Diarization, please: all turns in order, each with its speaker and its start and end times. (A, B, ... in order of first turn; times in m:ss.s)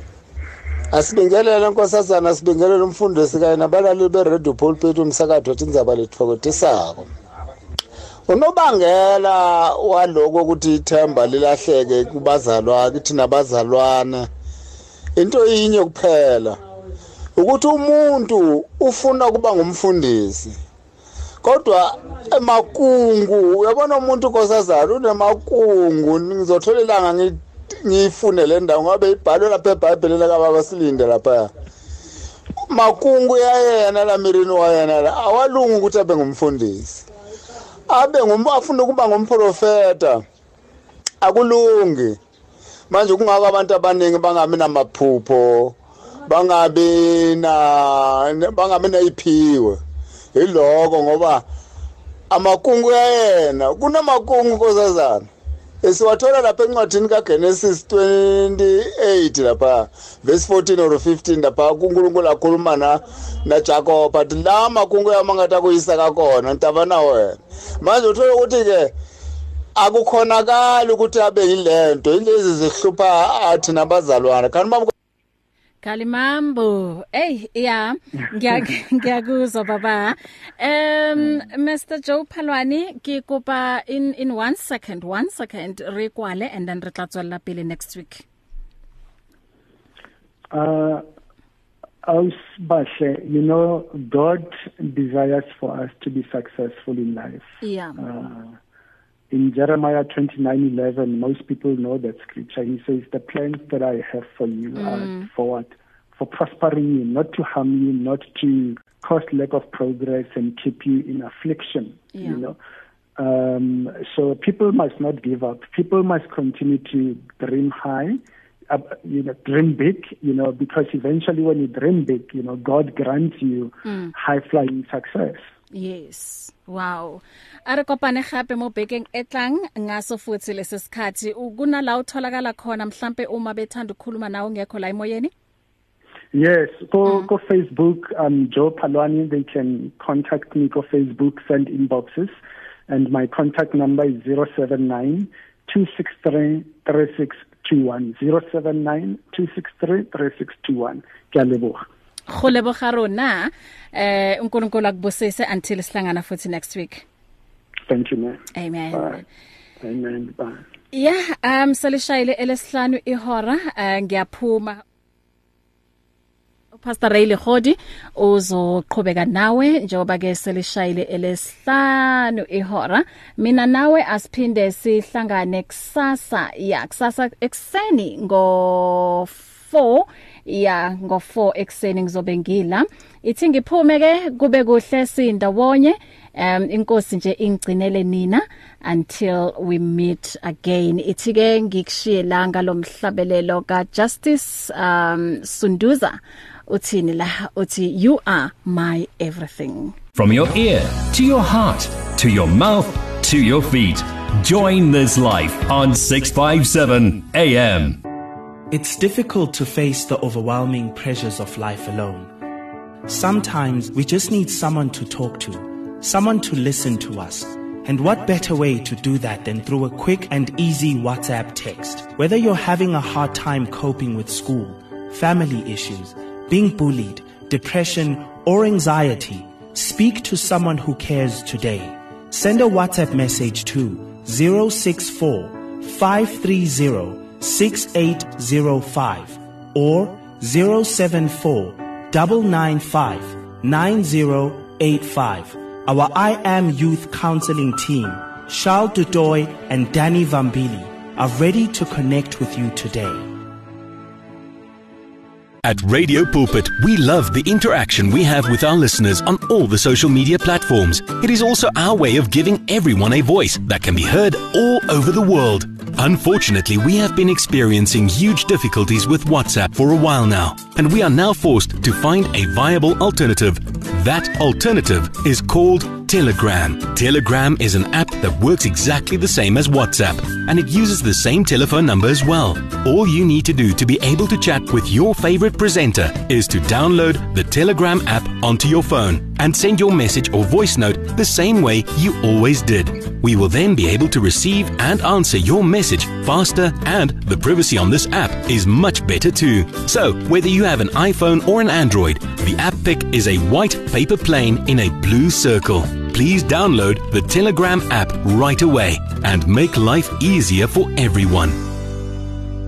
0:00.9-0:07.1 A
0:08.3-0:14.3 A
0:15.2-0:16.6 A
0:17.4-0:20.6 A
0:21.4-0:31.5 A
0:32.7-0:37.0 A
0:37.9-0:40.2 A
0:41.2-0:42.2 A
0:42.9-0:49.8 A
0:50.4-0:51.4 A
0:52.3-0:55.3 A
0:55.8-1:08.9 A
1:09.8-1:14.9 A
1:15.8-1:28.2 B
1:30.5-1:31.0 C
1:32.0-1:38.5 C
1:37.6-1:38.0 B
1:39.3-1:52.6 C
1:44.8-1:45.3 B
1:52.1-1:52.4 B
1:53.2-2:05.5 C
2:03.9-2:04.1 B
2:05.7-2:15.3 B
2:16.3-2:31.8 C
2:32.3-2:37.0 B
2:37.9-2:39.2 C
2:38.5-2:39.2 B
2:39.8-2:40.6 C
2:40.9-2:44.8 B
2:46.8-3:20.0 B
3:20.2-3:28.0 D
3:28.7-3:32.3 E
3:33.1-4:13.3 E
4:15.6-5:11.7 F